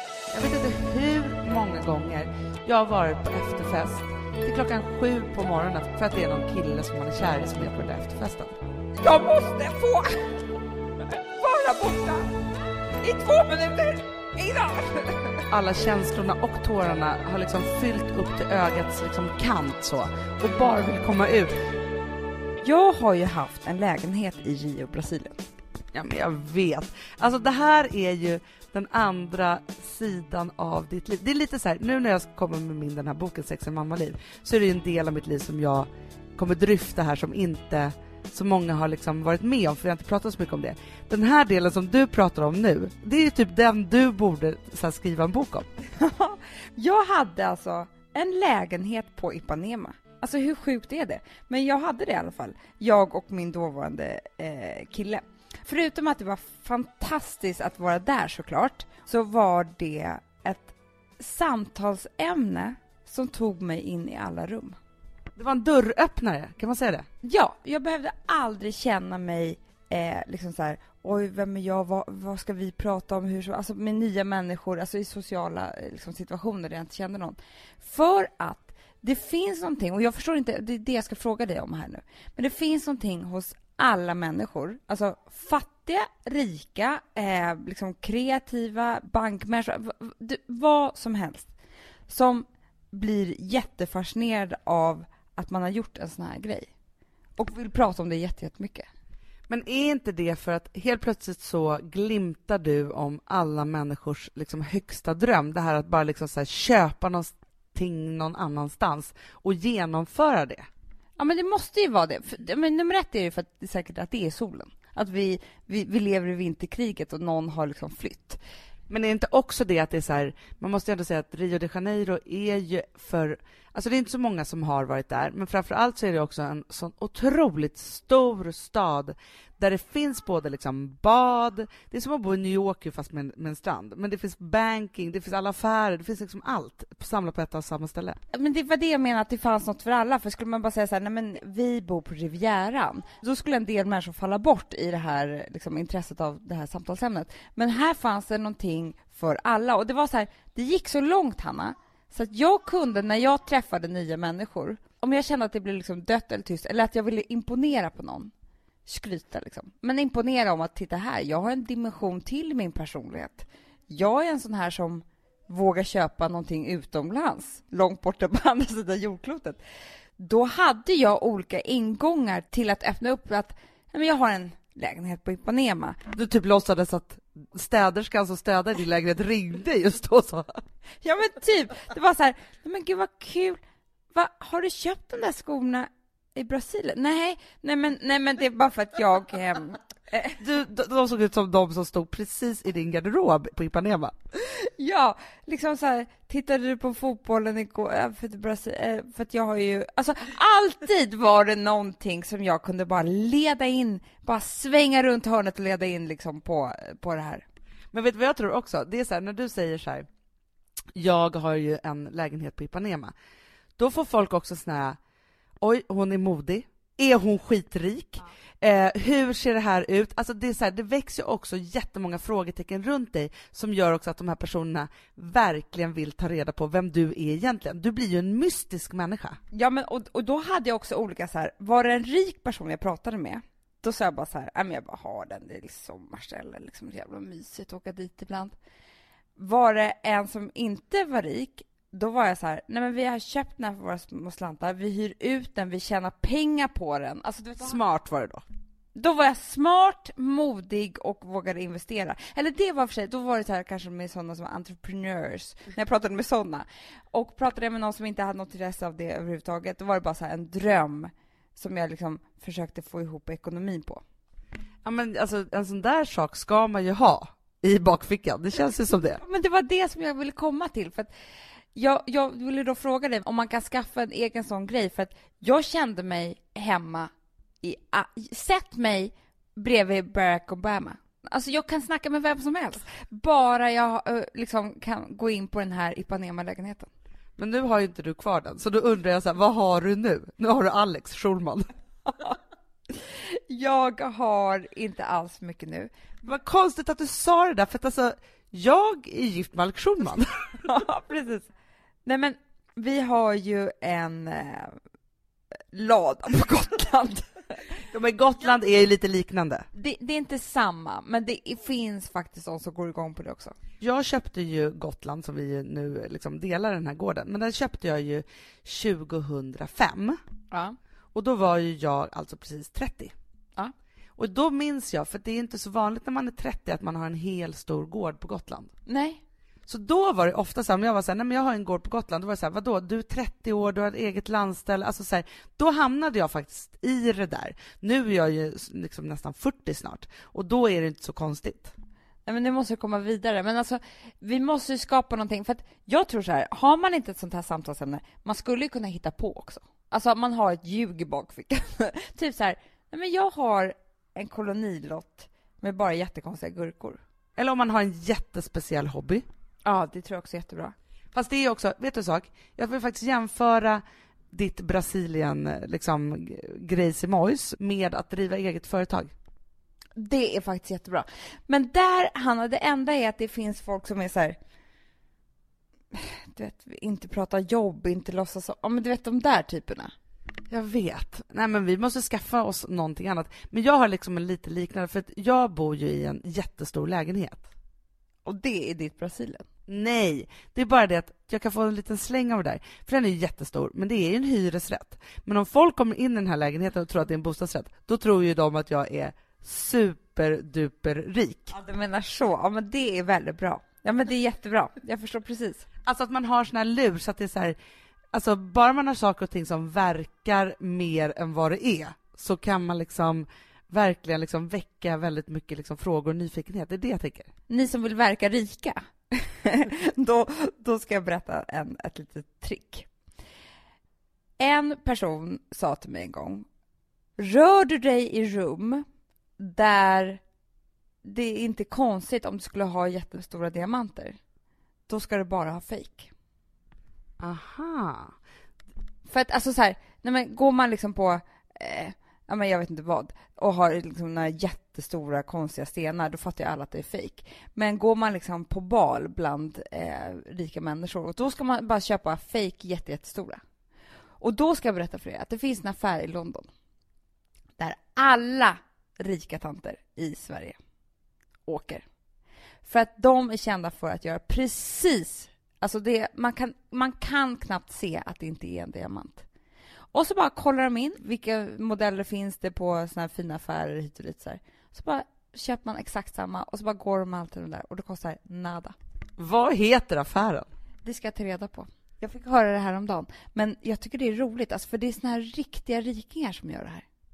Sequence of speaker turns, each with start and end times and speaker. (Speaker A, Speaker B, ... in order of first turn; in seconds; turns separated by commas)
Speaker A: 0.3-8.5, Speaker B: 9.0-10.4, Speaker B: 11.0-12.3, Speaker B: 13.0-15.4, Speaker A: 15.5-21.5, Speaker B: 22.6-25.4, Speaker A: 25.9-45.7, Speaker B: 45.9-64.8, Speaker A: 65.4-67.1, Speaker B: 67.2-91.5, Speaker B: 92.1-96.7, Speaker B: 97.4-98.9, Speaker A: 99.5-110.7, Speaker B: 111.2-118.4, Speaker A: 118.9-138.2, Speaker B: 138.3-158.3, Speaker B: 158.8-169.6, Speaker B: 170.2-176.0, Speaker A: 176.1-180.5, Speaker B: 181.0-183.6, Speaker B: 184.1-190.4, Speaker A: 190.4-194.1, Speaker B: 194.4-207.4, Speaker A: 207.9-210.1, Speaker A: 210.9-213.1, Speaker A: 213.8-215.0, Speaker A: 215.6-229.4, Speaker B: 229.5-238.5, Speaker B: 239.4-247.8, Speaker A: 247.6-248.4, Speaker B: 248.9-264.0, Speaker A: 264.8-269.2, Speaker B: 269.2-271.1, Speaker B: 271.7-277.1, Speaker B: 277.6-286.9, Speaker A: 287.4-291.7, Speaker B: 292.1-292.4, Speaker B: 292.9-295.9, Speaker A: 296.2-300.3, Speaker B: 300.6-301.5, Speaker B: 302.0-304.8, Speaker B: 305.7-307.8, Speaker A: 307.9-309.7, Speaker B: 309.7-313.5, Speaker A: 313.8-320.2, Speaker B: 320.5-320.8, Speaker A: 321.1-323.1, Speaker A: 324.2-328.7, Speaker B: 328.9-329.2, Speaker A: 329.7-341.7, Speaker B: 342.2-357.0, Speaker A: 357.4-359.2, Speaker B: 359.6-360.7, Speaker A: 361.1-363.8, Speaker A: 364.3-369.1, Speaker B: 369.9-374.4, Speaker B: 375.9-379.9, Speaker A: 380.5-387.4, Speaker B: 388.2-389.4, Speaker A: 389.7-401.5, Speaker B: 401.5-405.6, Speaker A: 405.8-407.6, Speaker A: 408.1-417.3, Speaker B: 417.5-422.9, Speaker B: 424.4-426.4, Speaker B: 427.2-428.8, Speaker B: 429.4-430.2, Speaker B: 431.0-434.2, Speaker B: 434.9-436.1, Speaker A: 437.2-438.1, Speaker B: 439.1-453.4, Speaker B: 454.2-456.5, Speaker B: 457.6-460.6, Speaker B: 461.4-461.8, Speaker B: 462.6-469.2, Speaker B: 469.9-478.7, Speaker A: 479.2-480.5, Speaker B: 480.8-486.8